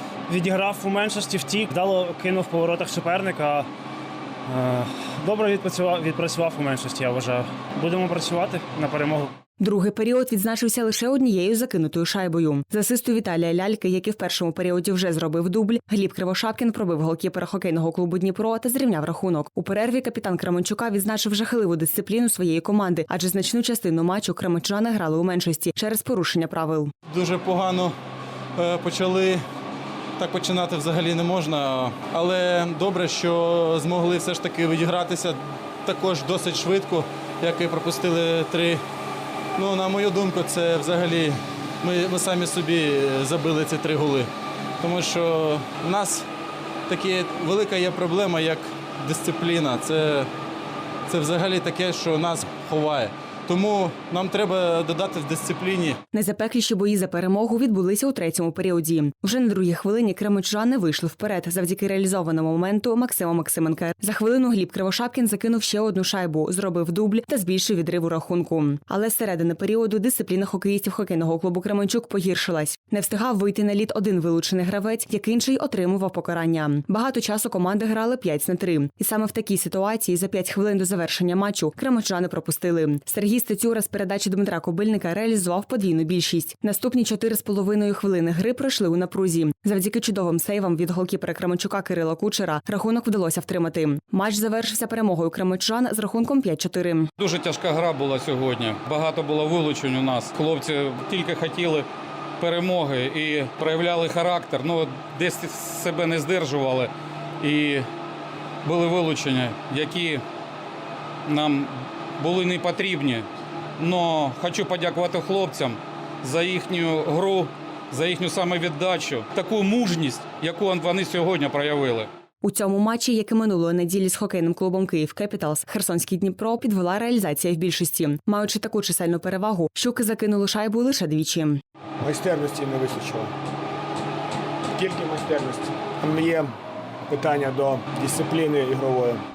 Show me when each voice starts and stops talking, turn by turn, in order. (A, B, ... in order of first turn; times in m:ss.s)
0:00.3-0:03.7 A
0:04.5-0:09.3 A
0:09.6-0:26.9 B
0:27.1-0:28.0 C
0:28.6-0:29.4 C
0:30.2-0:38.8 C
0:39.6-0:44.3 C
0:44.8-0:46.3 C
0:46.9-0:50.3 C
0:51.1-0:56.0 C
0:56.1-1:37.1 B
1:37.2-1:41.9 D
1:42.4-1:47.9 D
1:48.6-1:50.2 D
1:51.3-1:53.3 D
1:53.8-2:02.1 D
2:02.4-2:11.6 B
2:12.0-2:13.3 E
2:14.8-2:16.6 E
2:17.1-2:19.2 E